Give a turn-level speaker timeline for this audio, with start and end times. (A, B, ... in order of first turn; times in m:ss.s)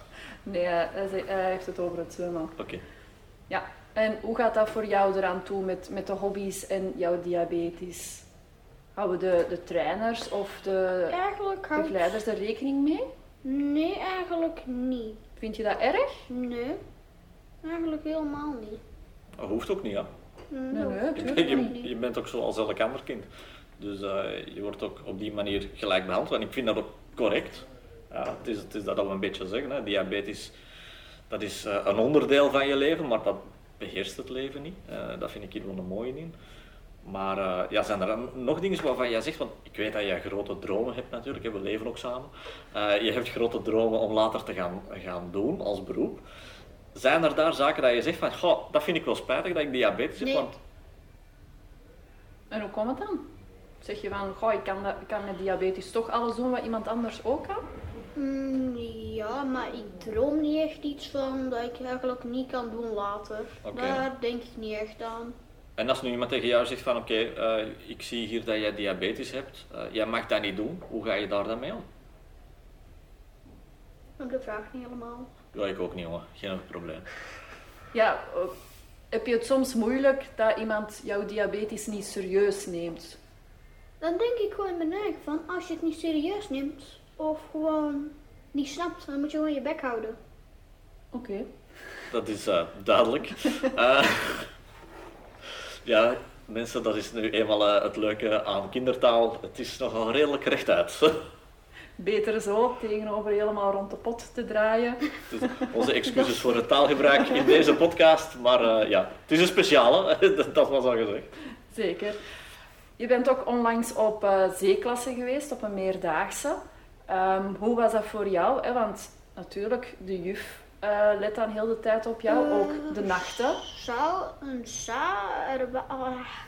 0:00.4-0:02.6 A
0:02.6-0:02.8 B
0:03.5-0:08.3 A
0:09.0-0:11.2 A
0:11.1-0:12.2 C
0:11.8-0:13.1 A
0:13.4-0:15.2 C
0:15.4-0:16.2 A
0:16.3-0:16.8 C
0:17.6-0:18.8 C
0:19.4-0:20.1 B
0:20.5-0:21.9 C
0:20.7-0:21.8 A
0:21.2-0:30.5 B
0:31.3-0:36.4 B
0:37.0-0:46.2 B
0:46.9-0:50.6 B
0:50.2-0:50.5 C
0:52.5-0:53.3 A
0:53.8-0:57.6 A
0:58.2-1:05.4 C
1:03.6-1:04.1 B
1:05.8-1:11.8 B
1:14.2-1:15.3 C
1:15.5-1:17.1 B
1:17.9-1:18.5 A
1:19.1-1:23.2 A
1:24.0-1:30.2 C
1:31.1-1:31.5 A
1:32.1-1:34.5 B
1:35.9-1:41.3 B
1:42.0-1:45.7 A
1:45.3-1:51.3 B
1:51.7-1:52.2 A
1:53.0-2:03.6 A
2:02.3-2:06.3 C